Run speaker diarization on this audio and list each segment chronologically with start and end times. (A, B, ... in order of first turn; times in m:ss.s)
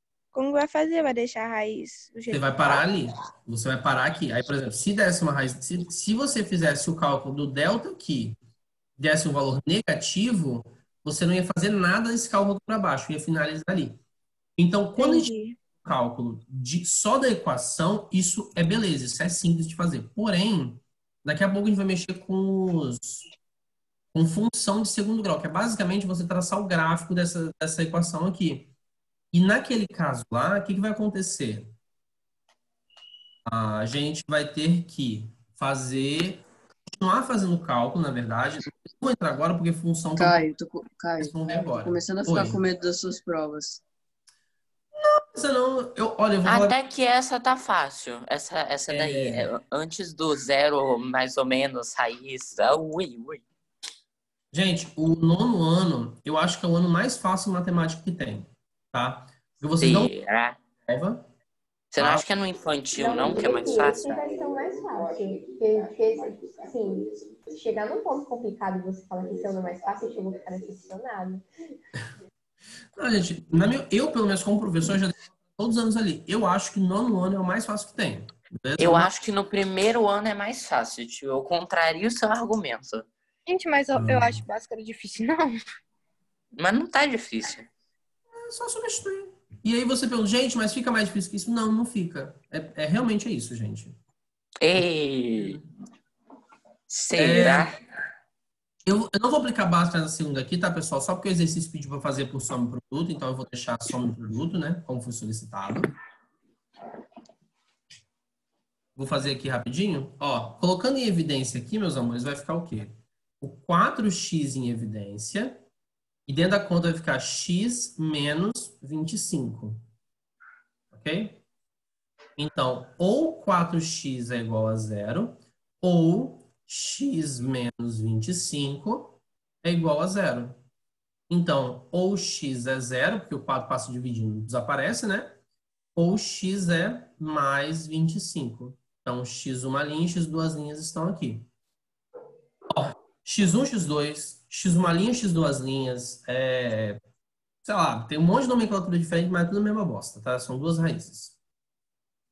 0:00.3-0:02.8 A
0:02.3-0:08.4 B
0:09.0-0:14.0 B
0:14.6-0:23.3 B
0:15.0-0:15.5 A
0:24.1-0:28.7 B
0:29.3-0:31.7 B
0:33.5-0:40.4 B
0:40.2-0:43.8 C
0:41.2-0:42.6 B
0:45.0-0:46.8 B
0:46.4-0:53.4 D
0:48.9-0:49.5 B
0:54.5-1:00.1 B
0:59.8-1:00.6 D
1:00.8-1:01.3 B
1:01.9-1:04.1 D
1:02.0-1:02.2 B
1:03.0-1:11.4 E
1:13.0-1:19.1 B
1:18.8-1:23.1 D
1:23.5-1:25.6 E
1:23.9-1:24.4 B
1:26.6-1:27.7 D
1:28.3-1:34.0 B
1:34.6-1:35.6 D
1:36.9-1:37.7 D
1:37.2-1:37.7 B
1:38.9-1:45.9 B
1:49.0-1:55.6 B
1:56.3-1:59.9 B
2:00.9-2:01.4 B
2:02.4-2:10.6 B
2:11.3-2:15.4 B
2:16.0-2:21.5 B
2:22.7-2:27.0 B
2:27.6-2:31.4 B